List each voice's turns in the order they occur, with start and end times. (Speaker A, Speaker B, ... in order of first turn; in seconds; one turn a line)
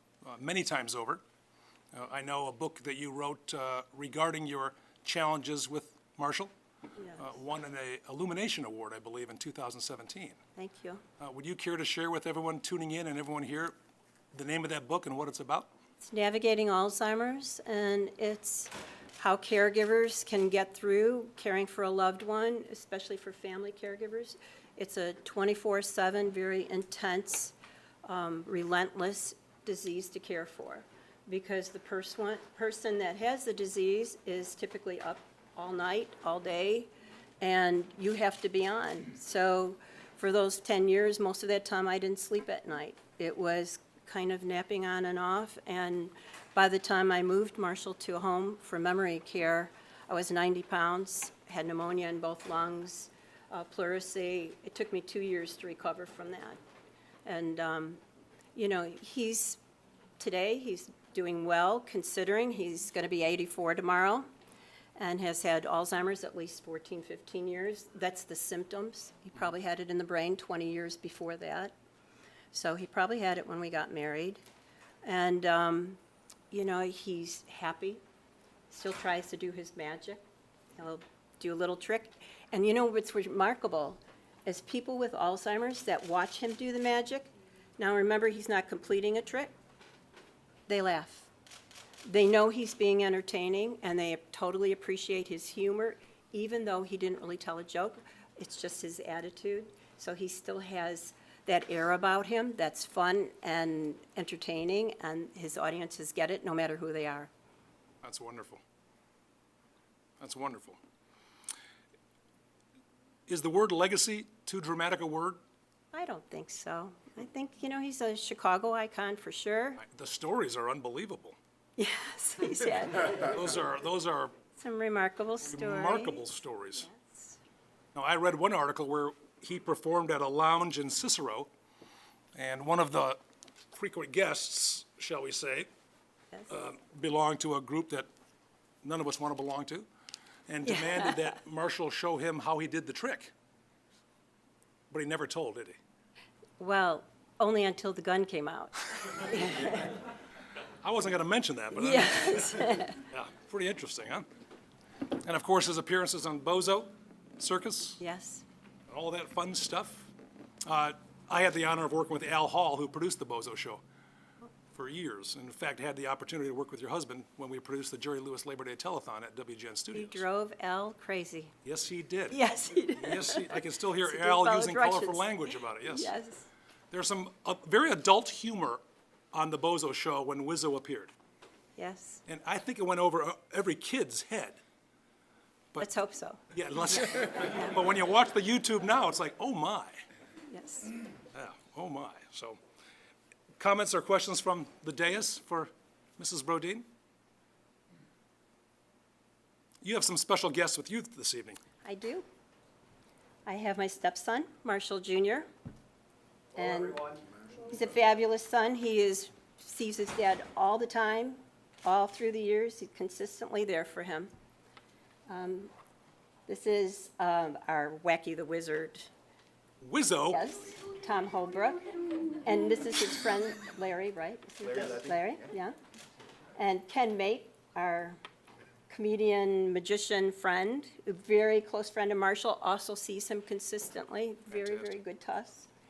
Speaker A: 0.2-1.2
Speaker A: 1.9-6.5
Speaker B: 7.0-7.3
Speaker A: 7.2-10.4
Speaker B: 10.6-11.0
Speaker A: 11.2-13.7
Speaker A: 14.3-15.7
Speaker B: 16.0-36.9
Speaker B: 37.4-56.6
Speaker B: 57.2-58.0
Speaker B: 58.5-59.6
Speaker B: 60.2-64.3
Speaker B: 65.0-71.7
Speaker B: 72.5-74.4
Speaker B: 75.0-76.0
Speaker B: 76.5-78.0
Speaker B: 78.7-80.2
Speaker B: 80.8-89.5
Speaker B: 90.7-91.3
Speaker B: 92.0-107.3
Speaker A: 108.0-108.6
Speaker A: 110.2-110.8
Speaker A: 113.3-115.4
Speaker B: 115.9-119.8
Speaker A: 119.8-121.4
Speaker B: 121.8-123.3
Speaker A: 123.2-124.3
Speaker B: 124.6-126.3
Speaker A: 125.5-126.9
Speaker B: 126.8-127.4
Speaker A: 128.0-131.5
Speaker A: 132.3-133.2
Speaker A: 133.7-135.7
Speaker A: 136.5-138.1
Speaker A: 138.8-139.9
Speaker A: 140.5-143.3
Speaker B: 140.7-141.2
Speaker A: 144.9-145.8
Speaker B: 146.6-150.0
Speaker A: 150.8-154.3
Speaker B: 151.8-153.0
Speaker A: 155.2-158.0
Speaker B: 158.0-158.4
Speaker A: 158.9-160.1
Speaker A: 160.7-163.8
Speaker A: 164.7-170.2
Speaker B: 169.9-171.5
Speaker A: 171.7-172.4
Speaker B: 172.3-176.5
Speaker A: 173.0-176.1
Speaker A: 176.9-178.8
Speaker A: 179.3-181.1
Speaker B: 181.8-182.2
Speaker A: 182.3-184.6
Speaker B: 185.8-186.4
Speaker A: 186.5-190.0
Speaker B: 190.5-190.9
Speaker A: 191.3-192.6
Speaker A: 193.6-196.9
Speaker A: 199.8-201.6
Speaker B: 201.8-202.2
Speaker B: 203.5-205.5
Speaker B: 206.6-214.3
Speaker B: 215.3-215.7
Speaker B: 216.5-219.1
Speaker A: 219.8-220.4
Speaker B: 220.3-225.8
Speaker B: 226.6-228.2
Speaker B: 228.9-235.7